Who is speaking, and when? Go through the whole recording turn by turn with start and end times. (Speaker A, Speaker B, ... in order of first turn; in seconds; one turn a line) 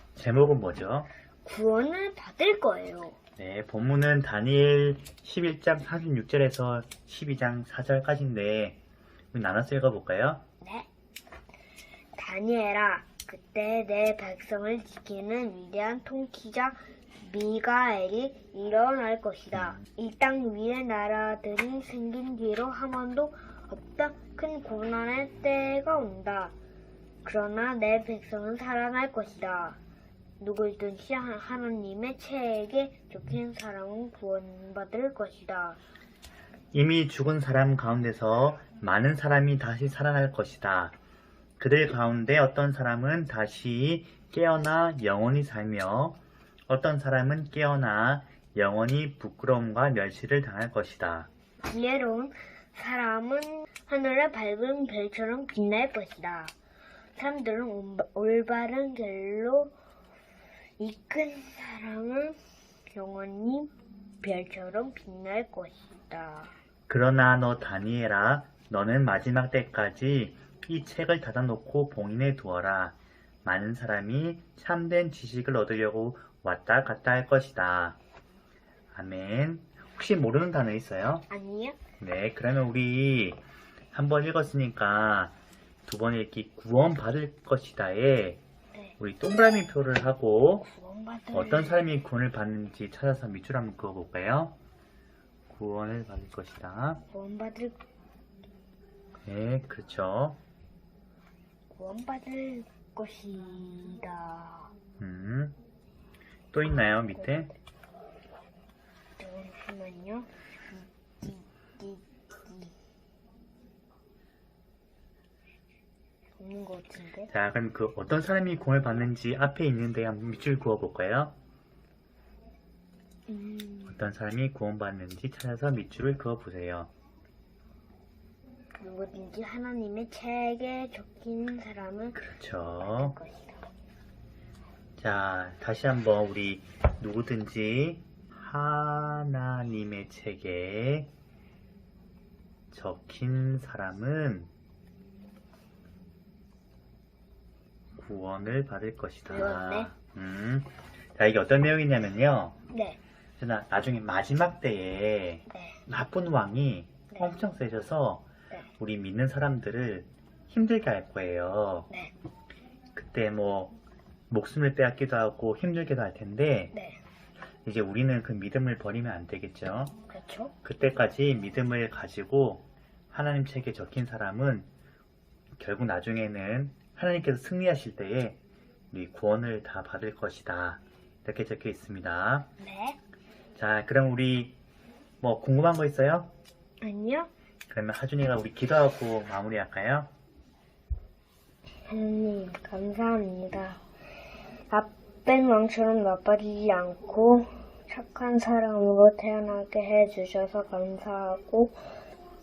Speaker A: 0.2-1.1
Speaker B: 1.4-3.2
Speaker A: 3.4-8.8
Speaker A: 9.3-10.4
Speaker B: 10.6-10.9
Speaker B: 12.2-26.5
Speaker B: 27.2-29.8
Speaker B: 30.4-35.8
Speaker A: 36.7-40.9
Speaker A: 41.6-51.3
Speaker B: 51.6-56.5
Speaker B: 57.2-59.7
Speaker B: 60.8-66.5
Speaker A: 66.9-78.0
Speaker A: 78.9-81.3
Speaker B: 81.3-81.8
Speaker A: 82.0-83.4
Speaker A: 83.9-85.3
Speaker A: 85.9-88.4
Speaker A: 89.0-90.7
Speaker B: 90.6-91.8
Speaker A: 91.3-94.5
Speaker A: 95.5-97.0
Speaker B: 97.1-97.8
Speaker A: 99.2-100.4
Speaker B: 101.8-104.7
Speaker A: 105.0-105.6
Speaker A: 106.5-107.5
Speaker B: 107.1-107.5
Speaker B: 109.2-112.7
Speaker B: 116.4-117.3
Speaker A: 117.3-121.4
Speaker B: 123.3-124.0
Speaker A: 123.9-126.9
Speaker B: 128.8-132.2
Speaker A: 132.2-133.2
Speaker B: 132.8-133.7
Speaker A: 135.0-141.1
Speaker A: 142.7-144.5
Speaker A: 148.0-152.6
Speaker B: 149.3-149.9
Speaker B: 152.7-153.0
Speaker A: 153.4-158.3
Speaker B: 155.5-155.8
Speaker B: 157.1-157.4
Speaker A: 158.8-161.9
Speaker A: 162.9-163.8
Speaker A: 164.3-166.7
Speaker B: 166.7-167.0
Speaker A: 167.7-169.9
Speaker B: 170.1-170.5
Speaker A: 170.6-174.7
Speaker A: 175.6-178.4
Speaker A: 178.9-182.5
Speaker B: 182.6-183.0
Speaker A: 183.6-184.6
Speaker A: 185.2-186.3
Speaker B: 186.8-187.3
Speaker A: 187.7-190.1
Speaker B: 191.9-193.8
Speaker B: 194.7-201.8